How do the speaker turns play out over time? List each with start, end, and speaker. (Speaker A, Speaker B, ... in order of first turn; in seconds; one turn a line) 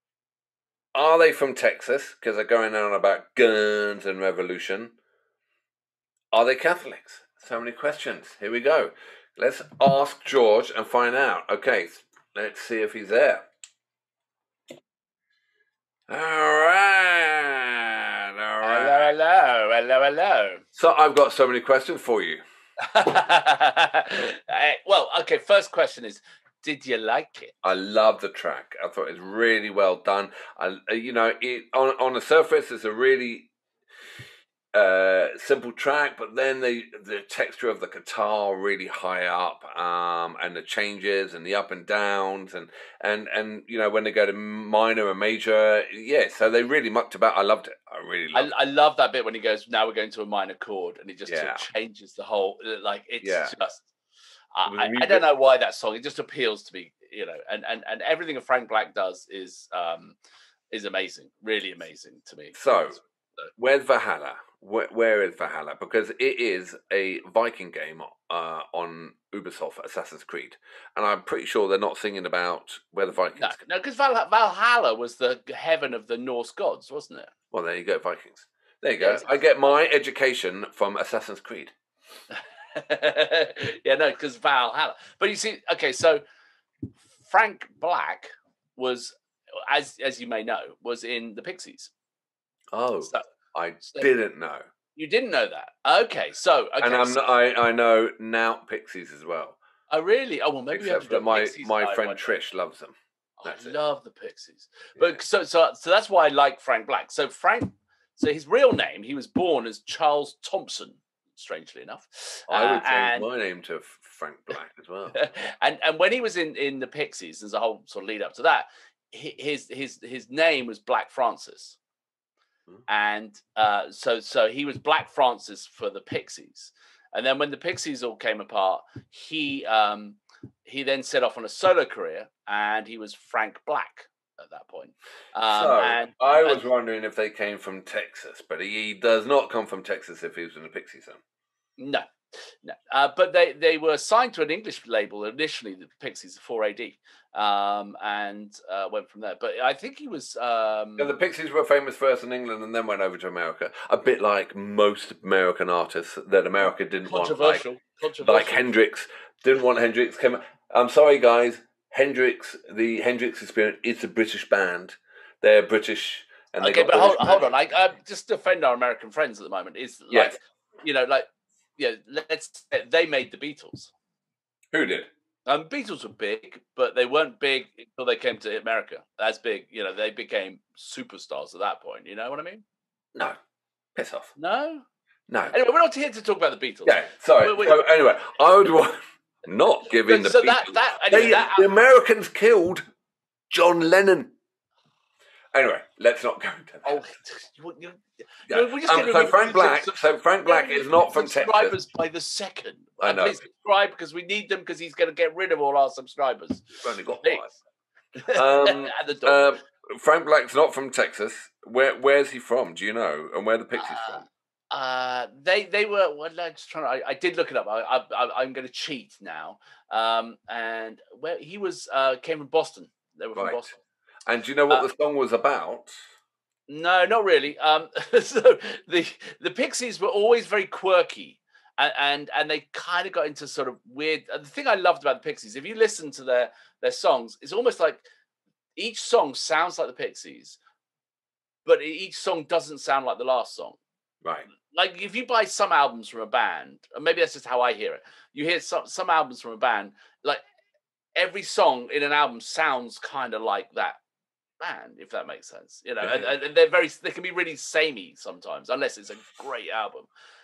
Speaker A: 0.9-4.9
Speaker A: 6.3-13.4
Speaker A: 16.1-19.1
Speaker B: 18.6-20.6
Speaker A: 20.8-22.4
Speaker B: 22.9-27.5
Speaker A: 27.6-33.5
Speaker A: 34.7-48.5
Speaker B: 48.3-53.9
Speaker A: 51.3-51.6
Speaker A: 53.2-53.5
Speaker B: 54.5-60.1
Speaker A: 54.6-55.2
Speaker B: 60.7-63.5
Speaker A: 62.5-63.0
Speaker A: 63.6-73.6
Speaker B: 73.4-77.3
Speaker A: 77.5-81.7
Speaker B: 79.0-79.8
Speaker B: 82.7-86.2
Speaker B: 87.2-89.1
Speaker B: 89.7-91.9
Speaker A: 92.7-94.6
Speaker B: 93.8-94.1
Speaker B: 94.9-97.2
Speaker A: 96.8-99.6
Speaker B: 99.9-102.4
Speaker A: 100.7-103.8
Speaker B: 103.4-113.3
Speaker A: 112.5-115.2
Speaker B: 115.1-121.8
Speaker B: 122.9-136.6
Speaker A: 135.5-141.2
Speaker B: 141.8-142.0
Speaker B: 142.6-151.1
Speaker A: 151.0-157.6
Speaker B: 157.1-158.7
Speaker A: 158.2-167.5
Speaker B: 166.6-171.2
Speaker A: 170.1-170.4
Speaker B: 171.8-173.9
Speaker A: 174.7-175.1
Speaker B: 175.4-182.6
Speaker A: 183.9-184.3
Speaker B: 184.3-184.8
Speaker A: 185.3-185.5
Speaker B: 185.5-188.2
Speaker A: 186.8-192.8
Speaker B: 189.9-191.7
Speaker A: 193.5-194.3
Speaker A: 195.5-197.0
Speaker B: 196.8-207.6
Speaker A: 198.5-201.8
Speaker A: 203.0-203.4
Speaker A: 206.8-207.5
Speaker B: 208.2-209.4
Speaker A: 208.3-214.2
Speaker B: 213.7-223.8
Speaker A: 223.3-223.6
Speaker A: 224.2-225.9
Speaker B: 226.7-238.0
Speaker B: 238.8-240.6
Speaker B: 241.6-243.8
Speaker B: 244.6-250.4
Speaker B: 251.2-254.0
Speaker B: 254.6-260.1
Speaker A: 256.0-256.3